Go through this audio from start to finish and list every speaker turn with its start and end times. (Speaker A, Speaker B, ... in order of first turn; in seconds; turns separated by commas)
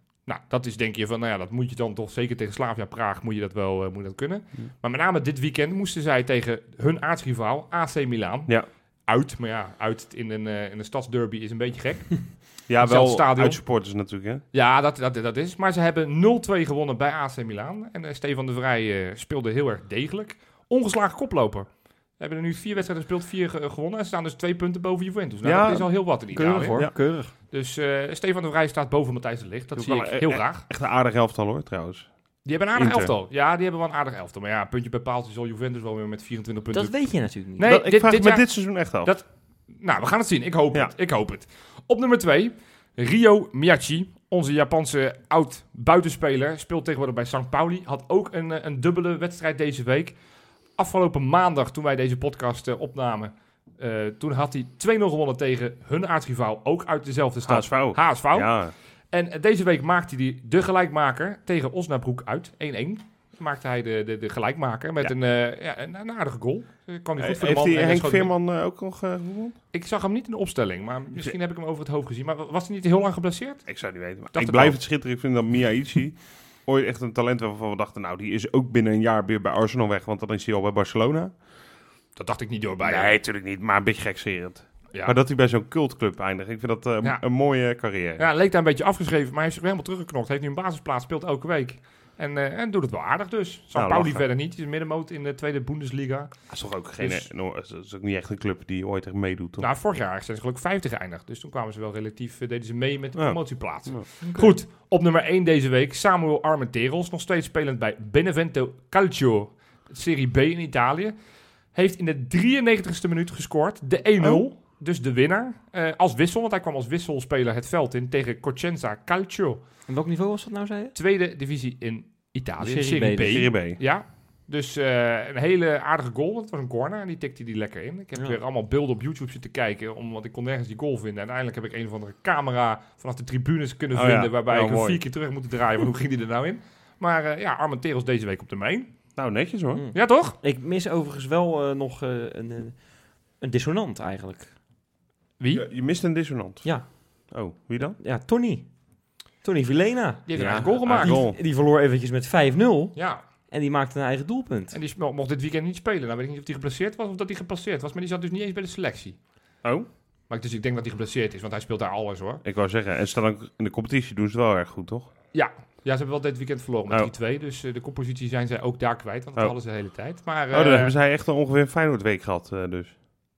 Speaker A: 0.2-30.6, Speaker B: 12.7-14.4, Speaker B: 25.4-26.0, Speaker C: 26.3-27.3, Speaker B: 29.7-33.1, Speaker A: 32.4-68.3, Speaker C: 36.7-37.7, Speaker B: 37.6-39.1, Speaker B: 57.5-58.7, Speaker B: 67.2-69.5, Speaker A: 69.7-74.8, Speaker B: 73.7-81.3, Speaker A: 82.2-83.1, Speaker B: 82.8-88.3, Speaker A: 87.0-97.2, Speaker B: 93.7-94.2, Speaker B: 96.5-99.6, Speaker A: 99.6-119.6, Speaker B: 103.2-104.1, Speaker C: 104.2-104.5, Speaker B: 114.2-114.5, Speaker C: 119.9-120.9, Speaker A: 120.9-138.9, Speaker C: 122.6-123.4, Speaker B: 123.3-123.8, Speaker B: 133.9-135.0, Speaker B: 139.1-139.8, Speaker C: 139.7-144.5, Speaker A: 139.9-140.4, Speaker A: 145.4-145.6, Speaker B: 145.5-148.0, Speaker C: 146.6-154.8, Speaker A: 150.2-151.2, Speaker B: 150.3-151.4, Speaker A: 152.9-153.2, Speaker A: 154.7-159.2, Speaker B: 159.6-159.9, Speaker A: 160.3-162.4, Speaker B: 162.4-165.1, Speaker A: 165.3-170.9, Speaker B: 170.5-172.9